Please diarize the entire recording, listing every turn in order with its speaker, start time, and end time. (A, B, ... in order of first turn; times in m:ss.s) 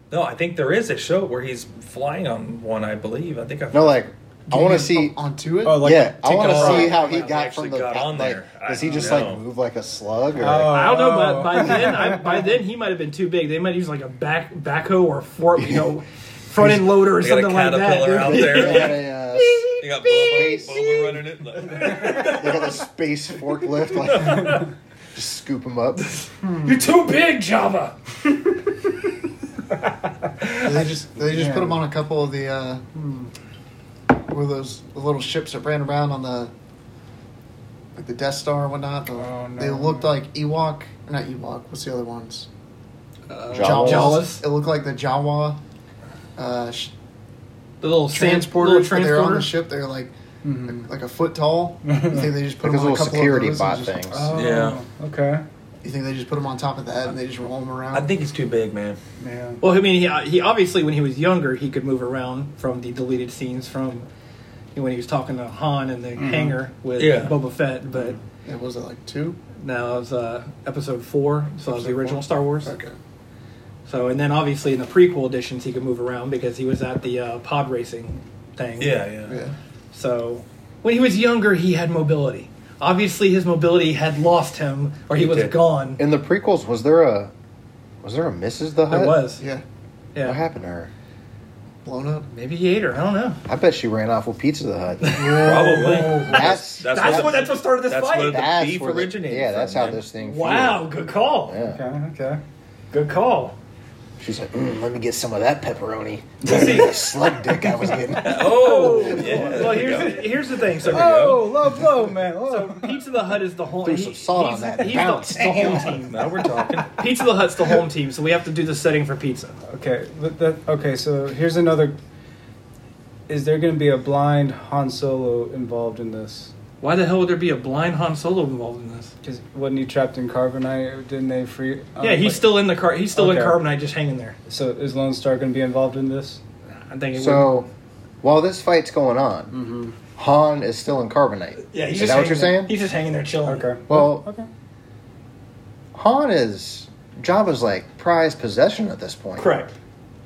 0:00.1-0:04.0 A
0:03.7-0:05.2 B
0:04.5-0:06.0 C
0:05.6-0:06.9 D
0:05.7-0:10.8 B
0:06.2-0:09.4 A
0:06.3-0:07.3 E
0:08.9-0:09.2 D
0:10.4-0:12.4 D
0:10.7-0:21.1 E
0:16.8-0:19.0 A
0:18.4-0:20.9 B
0:19.8-0:22.5 A
0:21.7-0:22.7 E
0:22.3-0:24.6 B
0:25.1-0:26.0 B
0:26.4-0:26.8 D
0:26.6-0:27.9 E
0:30.6-0:32.8 C
0:31.3-0:31.8 D
0:32.9-0:33.3 D
0:34.3-0:36.5 C
0:37.9-0:42.5 C
0:39.2-0:40.1 D
0:43.3-0:44.4 E
0:43.5-0:44.2 B
0:43.5-0:45.6 C
0:46.4-0:46.9 C
0:47.8-0:49.5 E
0:48.1-0:50.1 C
0:50.4-0:50.9 D
0:50.6-0:53.9 C
0:51.9-0:52.3 D
0:52.6-0:54.3 B
0:54.0-0:55.4 D
0:54.3-0:54.8 A
0:55.8-0:58.1 C
0:57.9-0:59.0 A
0:59.2-0:59.6 D
0:59.6-1:04.0 E
1:04.7-1:08.2 E
1:06.2-1:06.6 D
1:07.0-1:07.3 A
1:08.4-1:09.4 C
1:09.6-1:12.7 E
1:11.7-1:12.9 C
1:13.8-1:19.0 E
1:18.8-1:19.4 A
1:19.3-1:19.6 C
1:19.9-1:26.0 E
1:25.1-1:25.5 A
1:26.0-1:27.3 B
1:28.0-1:29.3 B
1:28.9-1:29.4 E
1:29.4-1:29.6 C
1:30.2-1:30.9 B
1:31.8-1:32.3 C
1:32.3-1:33.4 E
1:33.5-1:37.4 B
1:35.1-1:40.0 A
1:35.2-1:36.4 D
1:35.4-1:36.0 C
1:36.0-1:38.4 E
1:38.3-1:40.8 B
1:40.2-1:41.6 E
1:41.5-1:41.8 B
1:41.6-1:42.4 D
1:42.9-1:43.5 E
1:44.2-1:48.4 B
1:46.4-1:50.3 D
1:46.4-1:46.9 E
1:48.2-1:51.5 A
1:48.4-1:51.4 E
1:50.8-1:53.0 D
1:52.4-1:56.3 E
1:53.8-1:55.7 B
1:55.2-1:56.0 D
1:56.0-1:57.0 A
1:56.9-1:59.5 E
1:59.7-2:02.0 D
2:03.3-2:06.5 D
2:06.8-2:09.1 E
2:09.2-2:13.6 D
2:12.0-2:14.4 E
2:14.5-2:16.4 D
2:16.9-2:17.6 E
2:17.2-2:17.7 B
2:18.2-2:19.5 B
2:19.5-2:19.9 D
2:20.2-2:22.8 B
2:21.7-2:23.8 E
2:23.4-2:24.5 D
2:23.9-2:24.3 B
2:25.9-2:29.5 B
2:29.4-2:29.7 E